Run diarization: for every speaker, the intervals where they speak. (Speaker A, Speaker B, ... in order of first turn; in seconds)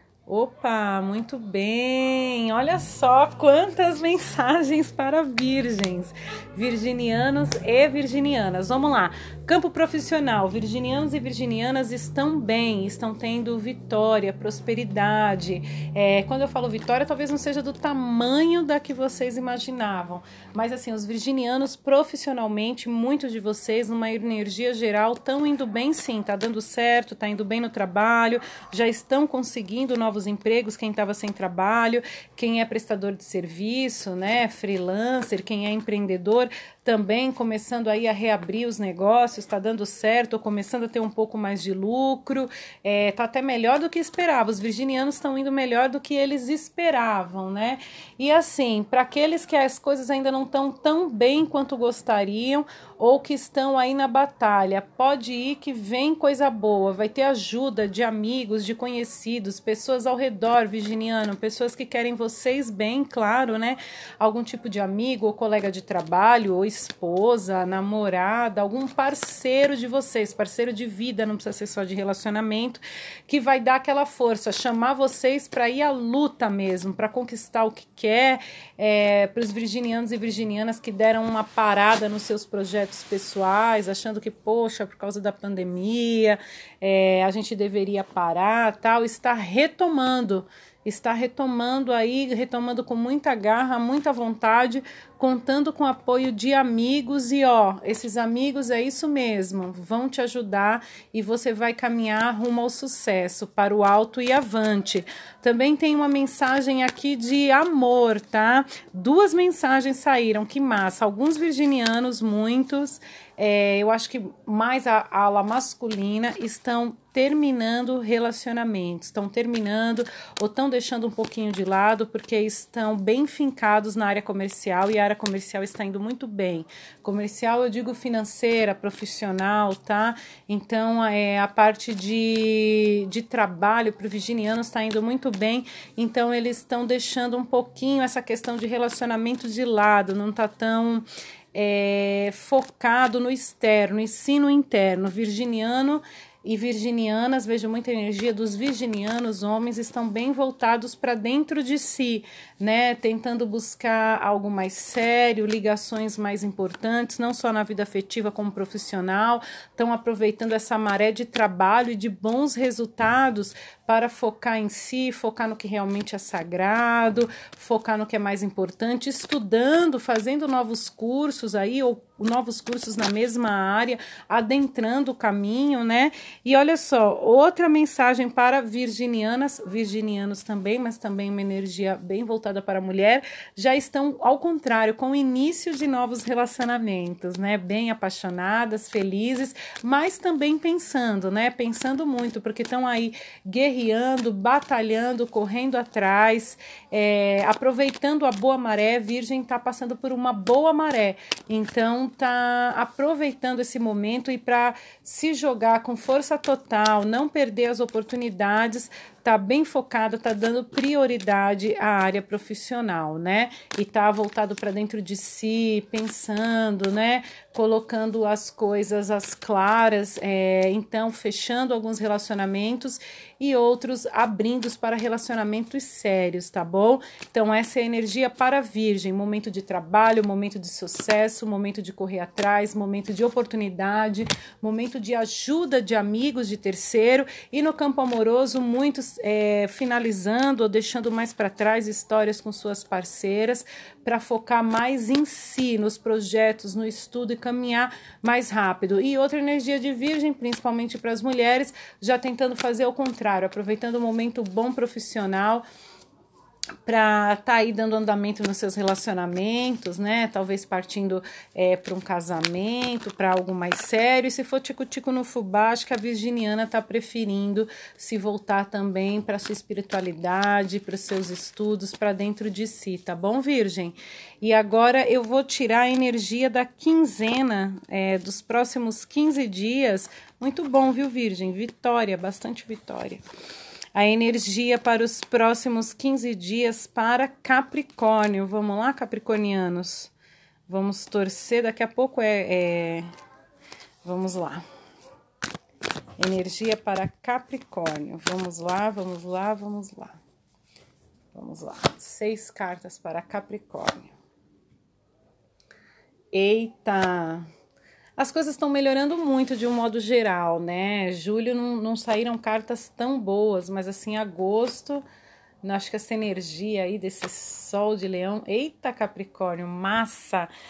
Speaker A: 0.2-255.6, 256.8-283.2, 283.9-290.1, 290.7-293.1, 294.0-294.6, 296.2-300.2, 301.3-304.1, 306.3-307.4, 308.2-315.0, 315.6-320.5